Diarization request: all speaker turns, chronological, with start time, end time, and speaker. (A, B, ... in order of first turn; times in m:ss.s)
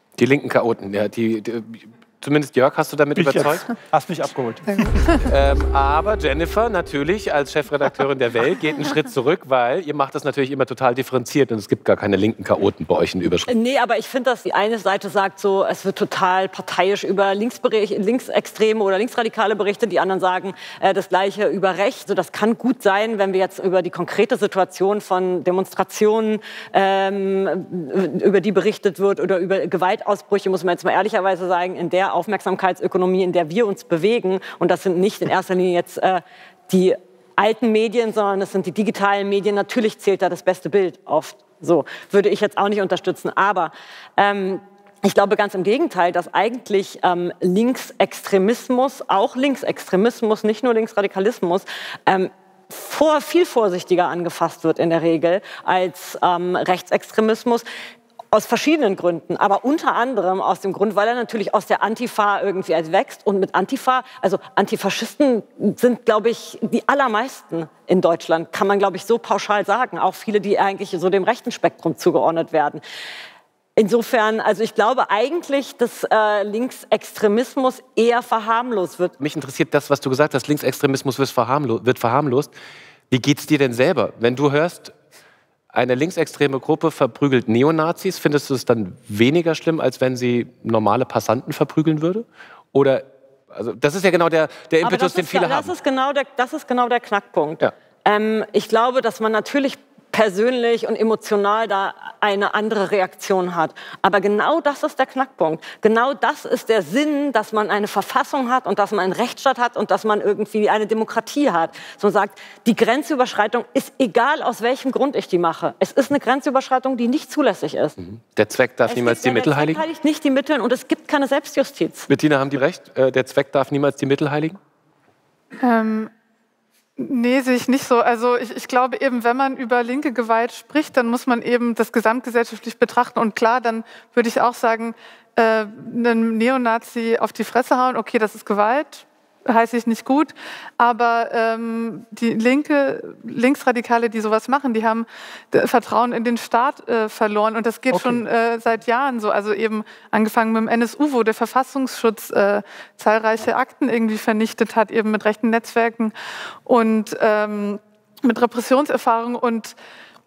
0:00.2-0:03.6 A
0:03.2-0:05.2 B
0:05.2-0:13.5 A
0:13.5-0:57.6 C
0:58.3-1:12.8 C
1:13.8-1:19.2 C
1:19.2-1:22.5 A
1:23.1-1:24.9 A
1:25.7-1:35.7 A
1:34.8-1:58.0 C
1:58.0-1:59.8 A
1:58.9-2:02.1 C
2:02.1-2:04.6 A
2:05.6-2:06.1 D
2:07.0-2:36.1 D
2:27.9-2:28.2 B
2:36.7-2:39.8 D